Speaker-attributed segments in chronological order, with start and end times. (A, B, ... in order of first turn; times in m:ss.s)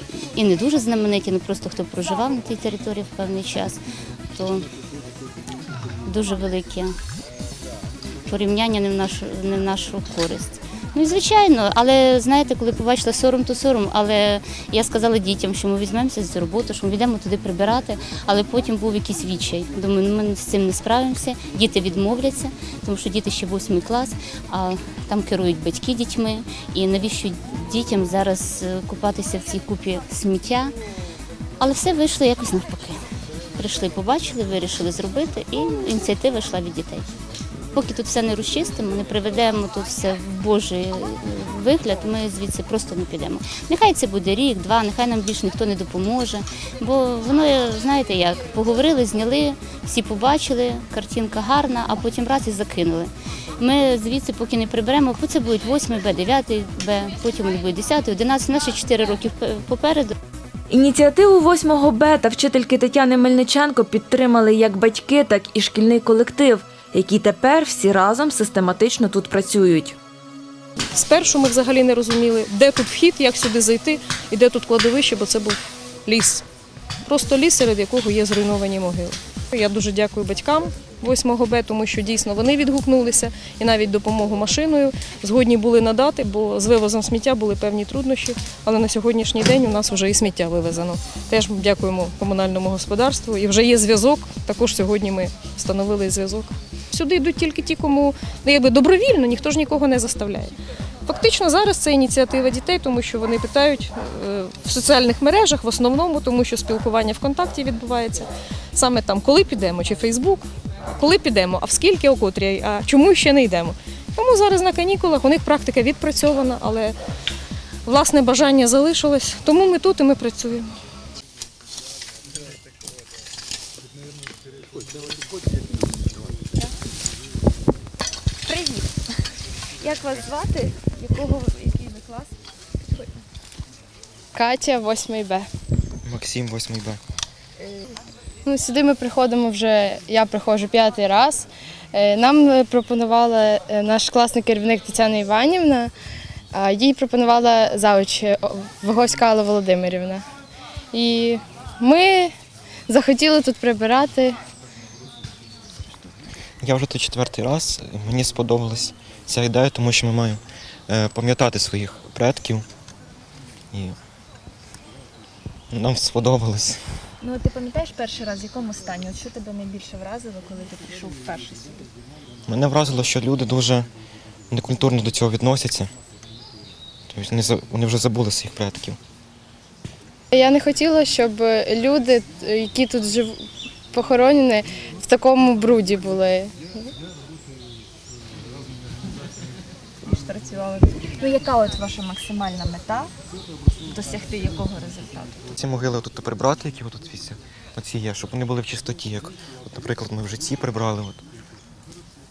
0:00.3-0:03.8 A
0:04.3-0:04.6 A
0:06.0-0:06.9 A
0:08.3-0:30.7 A
0:31.6-0:33.0 A
0:33.6-0:37.0 A
0:37.7-1:00.1 A
1:00.7-1:10.0 B
1:10.9-1:16.4 C
1:17.0-1:40.5 C
1:41.0-1:56.9 C
1:57.8-2:00.7 C
2:08.5-2:08.8 B
2:09.8-2:12.2 B
2:14.3-2:15.5 D
2:16.0-2:17.0 E
2:18.4-2:25.9 D
2:26.5-2:30.2 D
2:30.9-2:32.3 D
2:32.9-2:34.4 D
2:36.6-2:42.6 E
2:43.7-2:44.0 E
2:45.7-2:46.9 E
2:47.2-2:51.8 B
2:52.5-2:53.9 E
2:54.5-2:55.9 E
2:57.1-2:59.0 E
3:00.3-3:06.5 D
3:10.0-3:13.1 B
3:13.9-3:15.4 B
3:15.5-3:21.2 E